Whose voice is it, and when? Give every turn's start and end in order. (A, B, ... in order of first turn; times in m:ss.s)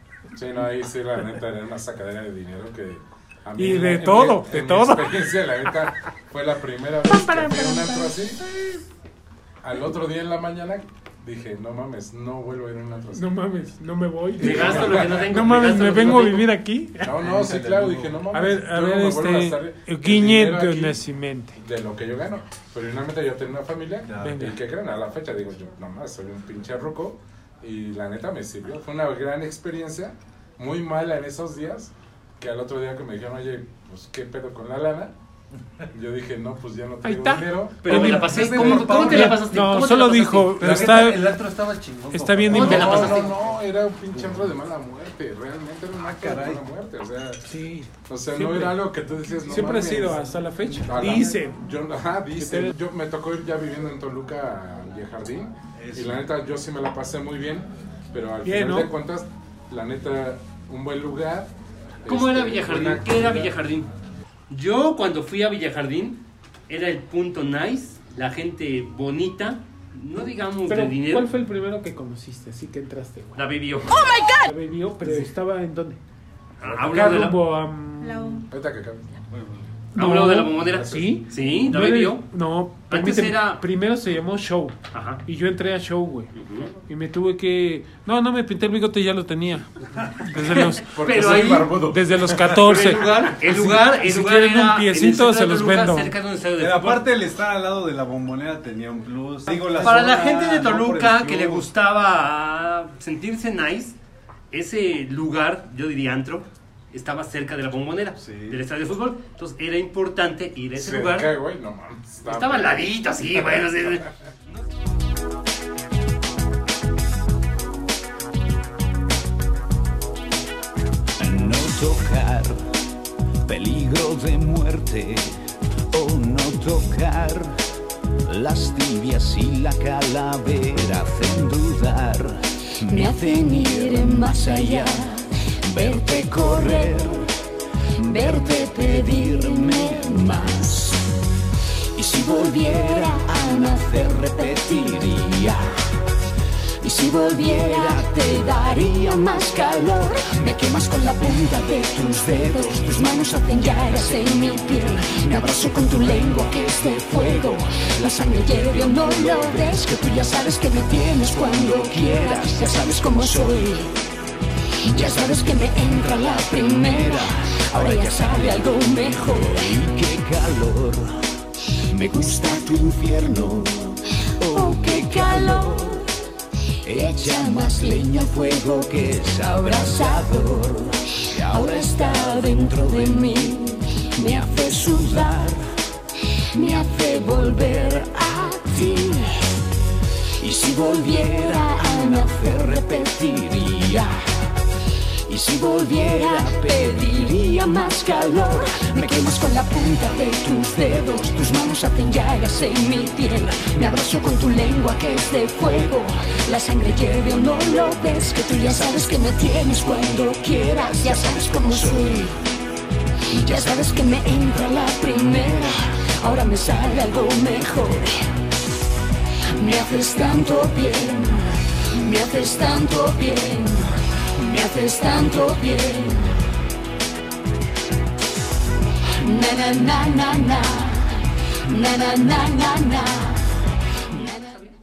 0:00.3-0:08.4 A
0:03.6-0:05.7 B
0:07.0-0:08.7 B
0:09.6-0:13.3 A
0:13.1-0:17.2 B
0:14.4-0:15.6 A
0:14.4-0:16.5 C
0:17.0-0:21.0 A
0:17.2-0:18.2 D
0:18.3-0:21.6 B
0:21.6-0:35.1 A
0:24.1-0:24.4 D
0:24.2-0:24.6 B
0:35.9-0:38.1 A
0:37.0-0:41.4 B
0:37.8-0:40.6 C
0:37.9-0:39.4 E
0:40.6-0:43.5 E
0:42.1-0:43.2 B
0:42.5-0:43.3 C
0:42.5-0:47.4 A
0:44.1-0:44.4 E
0:46.0-0:46.6 D
0:47.5-0:48.8 B
0:48.1-0:50.3 A
0:49.5-0:51.6 B
0:50.8-1:01.5 A
0:52.4-0:52.8 B
0:55.8-0:56.2 D
0:58.4-0:58.9 B
1:02.0-1:03.5 A
1:02.1-1:03.9 C
1:04.5-1:11.3 C
1:10.7-1:13.5 B
1:13.4-1:14.1 C
1:14.4-1:16.0 B
1:16.6-1:17.4 C
1:16.7-1:18.4 B
1:18.5-1:19.2 A
1:20.0-1:22.3 C
1:20.0-1:26.3 B
1:20.6-1:21.2 A
1:22.9-1:23.6 C
1:24.9-1:25.2 C
1:26.4-1:26.7 C
1:26.9-1:36.2 B
1:30.4-1:31.8 C
1:30.9-1:32.8 A
1:32.6-1:37.1 C
1:36.6-1:41.7 D
1:39.7-1:44.0 C
1:44.5-1:51.3 C
1:48.2-1:48.6 D
1:50.8-1:53.8 A
1:52.2-1:54.1 C
2:01.2-2:02.6 F
2:03.5-2:05.3 F
2:05.9-2:07.6 F
2:08.2-2:17.3 F
2:18.0-2:21.0 F
2:22.0-2:25.8 F
2:26.8-2:44.0 F
2:44.8-2:51.2 F
2:51.9-2:56.1 F
2:56.8-3:05.7 F
3:06.5-3:09.5 F
3:10.4-3:14.2 F
3:15.3-3:32.4 F
3:33.3-3:38.2 F
3:39.6-3:46.4 F
3:49.2-3:54.7 F